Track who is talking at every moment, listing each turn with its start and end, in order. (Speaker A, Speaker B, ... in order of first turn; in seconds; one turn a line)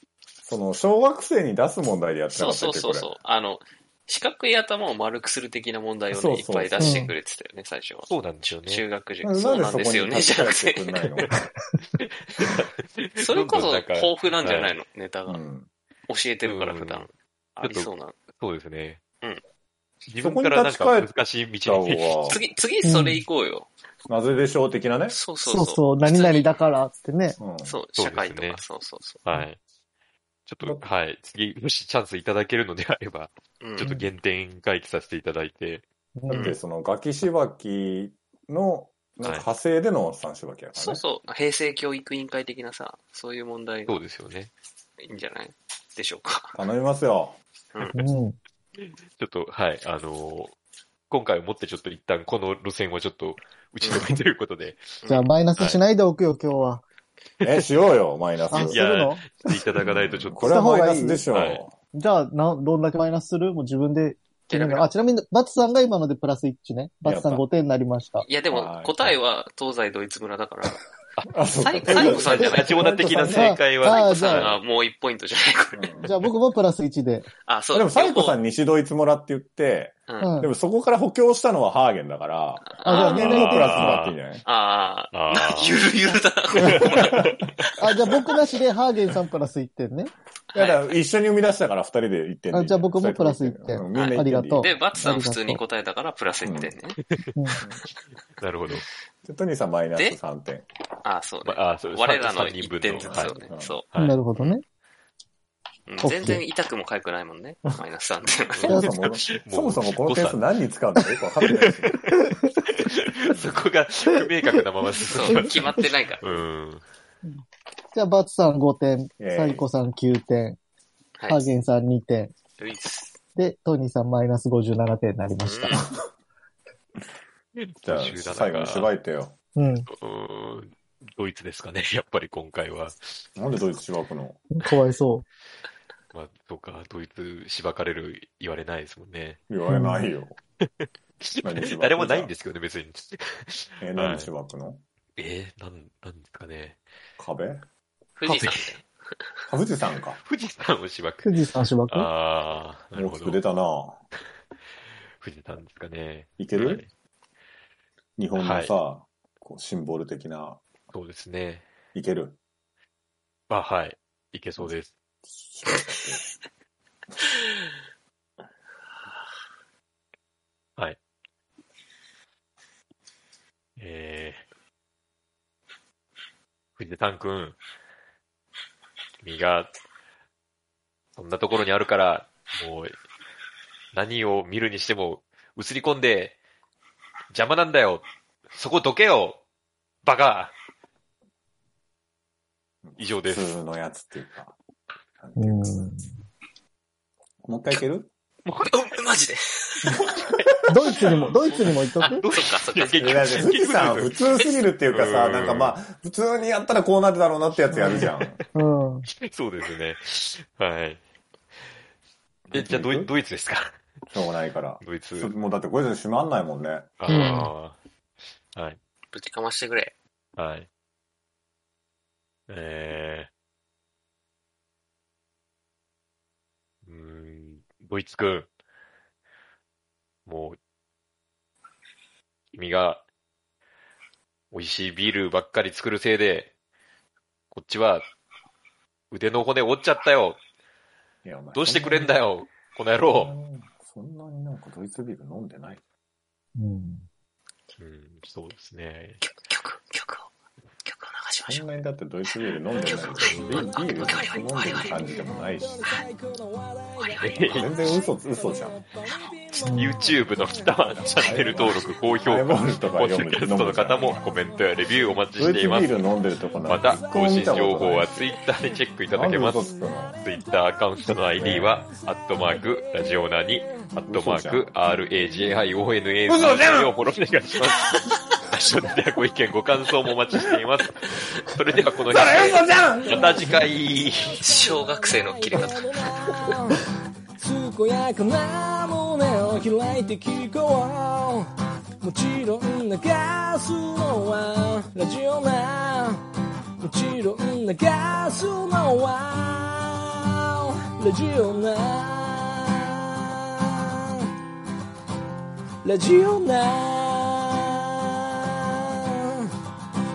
Speaker A: 0.5-3.1
Speaker B: 2.3-8.1
Speaker A: 6.1-7.0
Speaker C: 6.8-7.1
Speaker D: 8.1-8.8
Speaker B: 8.6-11.0
Speaker A: 9.2-11.3
Speaker D: 11.9-14.8
Speaker B: 13.2-15.4
Speaker A: 15.3-15.7
Speaker B: 16.1-18.2
Speaker D: 16.4-17.1
Speaker D: 17.6-19.0
Speaker D: 20.1-22.3
Speaker A: 20.2-21.1
Speaker A: 21.6-22.4
Speaker B: 22.3-23.7
Speaker C: 22.8-23.2
Speaker A: 24.1-25.2
Speaker B: 25.1-26.5
Speaker C: 25.4-27.4
Speaker A: 27.4-27.7
Speaker B: 27.6-29.2
Speaker D: 28.0-28.6
Speaker D: 29.2-29.6
Speaker D: 30.5-35.8
Speaker B: 33.6-33.9
Speaker C: 36.2-36.6
Speaker A: 36.3-41.0
Speaker B: 36.3-36.6
Speaker B: 40.8-44.0
Speaker D: 43.9-44.5
Speaker B: 45.0-46.6
Speaker A: 46.5-47.4
Speaker C: 48.0-48.4
Speaker D: 48.8-50.5
Speaker D: 51.1-55.0
Speaker B: 55.0-55.3
Speaker C: 55.1-56.8
Speaker A: 57.4-58.8
Speaker C: 58.5-59.5
Speaker D: 58.7-60.7
Speaker A: 59.8-61.7
Speaker C: 60.4-61.2
Speaker D: 61.3-61.6
Speaker C: 61.9-68.3
Speaker B: 64.5-64.9
Speaker A: 67.0-67.4
Speaker B: 68.2-70.8
Speaker A: 68.5-69.2
Speaker A: 71.3-73.6
Speaker B: 71.6-72.9
Speaker C: 71.9-74.5
Speaker D: 71.9-74.6
Speaker B: 73.8-76.0
Speaker A: 75.7-76.2
Speaker C: 76.0-77.3
Speaker B: 77.5-78.4
Speaker A: 77.7-84.4
Speaker B: 80.1-80.3
Speaker C: 80.2-80.5
Speaker B: 82.6-83.7
Speaker C: 82.8-84.0
Speaker D: 83.3-84.2
Speaker B: 84.5-88.4
Speaker D: 85.1-85.8
Speaker D: 86.6-87.4
Speaker A: 86.8-87.3
Speaker C: 87.8-90.1
Speaker B: 90.5-90.9
Speaker A: 90.5-95.2
Speaker C: 92.5-95.6
Speaker B: 93.9-97.0
Speaker A: 96.4-96.7
Speaker D: 97.0-97.3
Speaker C: 97.3-97.6
Speaker D: 98.4-98.8
Speaker A: 99.2-100.7
Speaker B: 101.0-104.6
Speaker D: 101.4-103.4
Speaker A: 103.0-103.8
Speaker D: 103.9-104.2
Speaker C: 104.0-104.6
Speaker B: 105.9-108.8
Speaker C: 106.0-106.4
Speaker D: 108.6-110.4
Speaker A: 108.7-112.0
Speaker D: 111.4-116.8
Speaker B: 115.1-116.4
Speaker C: 117.9-120.6
Speaker A: 119.2-119.6
Speaker B: 121.2-121.5
Speaker C: 121.3-122.4
Speaker B: 122.6-123.2
Speaker C: 123.4-125.9
Speaker B: 125.4-125.8
Speaker D: 127.6-128.9
Speaker A: 127.8-129.3
Speaker C: 129.6-129.9
Speaker D: 129.9-133.2
Speaker A: 133.4-134.4
Speaker C: 134.5-135.3
Speaker D: 136.1-139.4
Speaker A: 139.5-140.4
Speaker C: 139.7-140.0
Speaker D: 140.6-144.3
Speaker A: 141.4-142.3
Speaker A: 143.8-144.8
Speaker D: 145.2-146.8
Speaker A: 147.2-147.6
Speaker B: 148.2-148.9
Speaker D: 148.3-148.7
Speaker A: 149.5-150.2
Speaker D: 150.2-151.3
Speaker C: 151.2-152.1
Speaker D: 151.9-153.4
Speaker A: 152.9-154.0
Speaker D: 155.2-156.9
Speaker A: 156.4-156.8
Speaker A: 158.2-160.6
Speaker D: 158.4-158.7
Speaker D: 160.9-161.7
Speaker A: 161.9-162.4
Speaker D: 163.5-164.9
Speaker A: 165.3-166.2
Speaker D: 173.8-174.4
Speaker D: 176.8-177.6
Speaker D: 179.2-179.7
Speaker D: 181.2-183.0
Speaker D: 183.9-186.4
Speaker D: 187.3-189.4
Speaker D: 190.0-190.5
Speaker A: 192.8-194.6
Speaker D: 193.0-193.6
Speaker A: 195.2-195.8
Speaker C: 195.4-196.0
Speaker A: 197.4-198.1
Speaker B: 198.5-200.0
Speaker C: 200.7-202.2
Speaker D: 201.2-204.2
Speaker B: 201.4-203.6
Speaker A: 203.0-208.4
Speaker D: 204.9-205.8
Speaker C: 207.7-209.1
Speaker D: 209.2-211.0
Speaker A: 212.5-213.1
Speaker D: 212.5-213.8
Speaker A: 214.1-216.9
Speaker D: 214.8-215.3
Speaker D: 217.0-217.8
Speaker B: 217.1-217.5
Speaker C: 217.1-217.5
Speaker B: 219.1-219.9
Speaker D: 220.4-220.7
Speaker D: 222.5-223.3
Speaker D: 226.9-228.5
Speaker D: 230.3-230.6
Speaker D: 232.5-233.0
Speaker D: 234.5-236.5
Speaker D: 237.5-238.1
Speaker D: 239.1-240.4
Speaker A: 241.2-242.1
Speaker D: 241.6-243.3
Speaker A: 243.1-245.8
Speaker C: 246.6-247.1
Speaker D: 247.8-249.2
Speaker B: 249.2-250.3
Speaker B: 250.8-251.7
Speaker A: 251.5-255.8
Speaker B: 252.3-255.1
Speaker D: 253.2-253.7
Speaker E: 253.4-259.7
Speaker B: 257.0-257.5
Speaker D: 257.2-257.7
Speaker A: 257.4-258.8
Speaker B: 259.1-259.9
Speaker C: 259.6-260.0
Speaker D: 259.8-266.0
Speaker A: 261.1-264.2
Speaker A: 265.4-268.3
Speaker D: 266.7-284.4
Speaker A: 269.1-270.2
Speaker A: 271.4-271.9
Speaker A: 274.1-274.7
Speaker A: 276.3-276.9
Speaker A: 282.1-283.5
Speaker E: 283.1-286.8
Speaker B: 284.4-286.1
Speaker E: 287.4-291.5
Speaker E: 292.0-296.2
Speaker E: 296.8-304.3
Speaker E: 305.8-309.4